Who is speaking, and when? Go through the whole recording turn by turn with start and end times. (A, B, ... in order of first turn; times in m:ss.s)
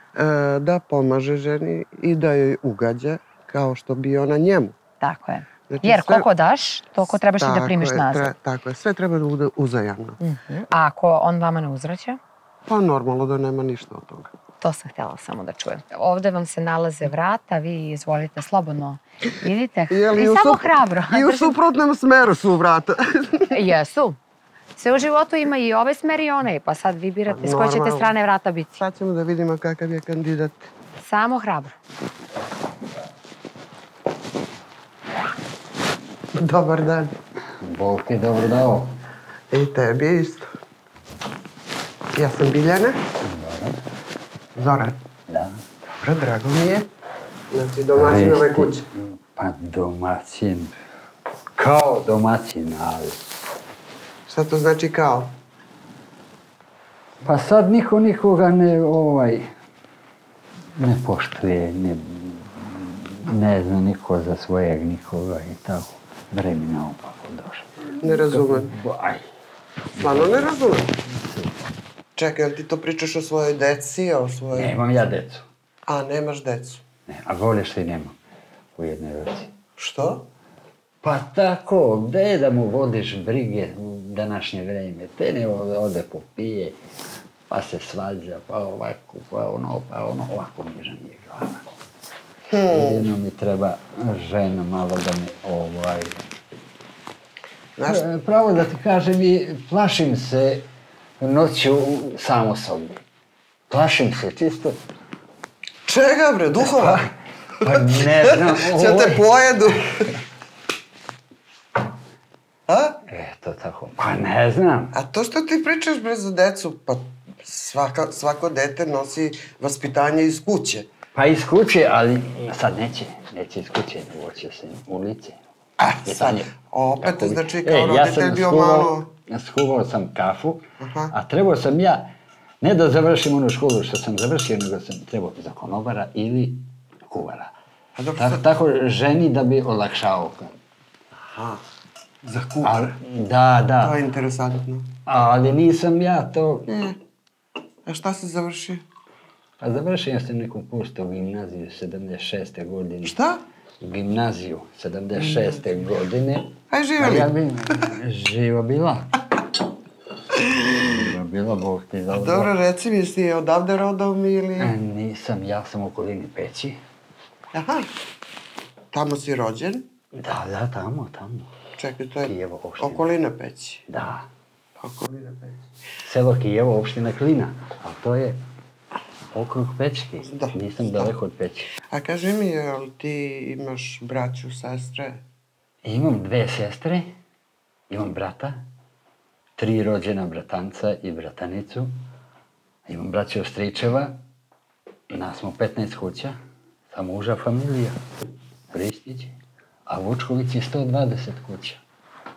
0:00.2-0:04.8 A
0:05.0-0:08.3 B
0:05.7-0:06.3 A
0:07.4-0:10.2 A
0:10.2-0:12.2 B
0:12.7-0:14.3 A
0:14.6-0:21.5 B
0:19.9-0:23.5 A
0:23.5-0:24.2 B
0:24.8-0:28.8 B
0:27.3-0:28.1 A
0:28.8-0:30.7 A
0:31.0-0:31.8 B
0:36.3-0:37.1 A
0:37.6-0:38.9 C
0:39.5-0:40.5 A
0:42.1-0:43.0 A
0:43.2-0:43.8 C
0:44.5-0:45.0 A
0:45.3-0:45.6 C
0:46.0-0:46.9 A
0:47.5-0:48.8 A
0:48.0-0:50.7 C
0:51.6-0:53.2 C
0:54.3-0:55.3 A
0:57.2-0:59.5 C
1:00.8-1:09.2 C
1:08.0-1:08.7 A
1:10.0-1:10.9 A
1:10.0-1:11.6 C
1:12.2-1:14.7 A
1:14.5-1:15.4 C
1:15.9-1:16.8 A
1:17.1-1:18.2 C
1:18.8-1:19.5 C
1:19.8-1:20.3 A
1:21.0-1:26.8 C
1:27.5-1:31.6 C
1:32.5-1:33.1 A
1:32.7-1:36.3 C
1:37.8-1:38.0 A
1:37.9-1:40.7 C
1:41.2-1:43.0 C
1:43.7-1:44.8 C
1:45.8-1:47.1 A
1:46.8-1:47.1 C
1:47.6-1:49.2 C
1:47.6-1:50.1 A
1:52.7-1:53.0 A
1:53.1-1:54.9 C
1:54.9-2:00.9 A
2:01.2-2:05.4 C
2:05.8-2:09.1 A
2:06.1-2:06.5 C
2:07.0-2:17.5 C
2:10.8-2:11.1 A
2:18.0-2:18.4 A
2:18.2-2:20.6 C
2:21.2-2:21.6 A
2:22.2-2:23.0 A
2:22.6-2:24.0 C
2:23.8-2:24.9 A
2:25.1-2:26.7 C
2:26.7-2:27.0 A
2:27.8-2:28.8 A
2:29.6-2:33.2 C
2:33.0-2:33.4 A
2:33.8-2:39.2 C
2:35.2-2:35.6 A
2:36.7-2:37.3 A
2:40.5-2:40.9 A
2:40.7-2:42.5 C
2:42.1-2:44.7 A
2:44.6-2:46.8 C
2:47.5-2:47.9 A
2:48.9-2:49.9 A
2:50.2-2:51.5 C
2:51.8-2:53.8 A
2:52.2-2:53.0 C
2:53.9-2:54.3 C
2:54.8-2:55.6 A
2:56.0-2:58.4 C
2:59.3-3:01.7 C
3:00.2-3:01.1 A
3:01.8-3:05.2 A
3:05.8-3:07.1 C
3:07.9-3:08.6 C
3:09.6-3:11.9 C
3:12.9-3:14.2 C
3:15.1-3:16.4 C
3:16.9-3:18.0 C
3:18.7-3:19.3 C
3:19.9-3:21.8 C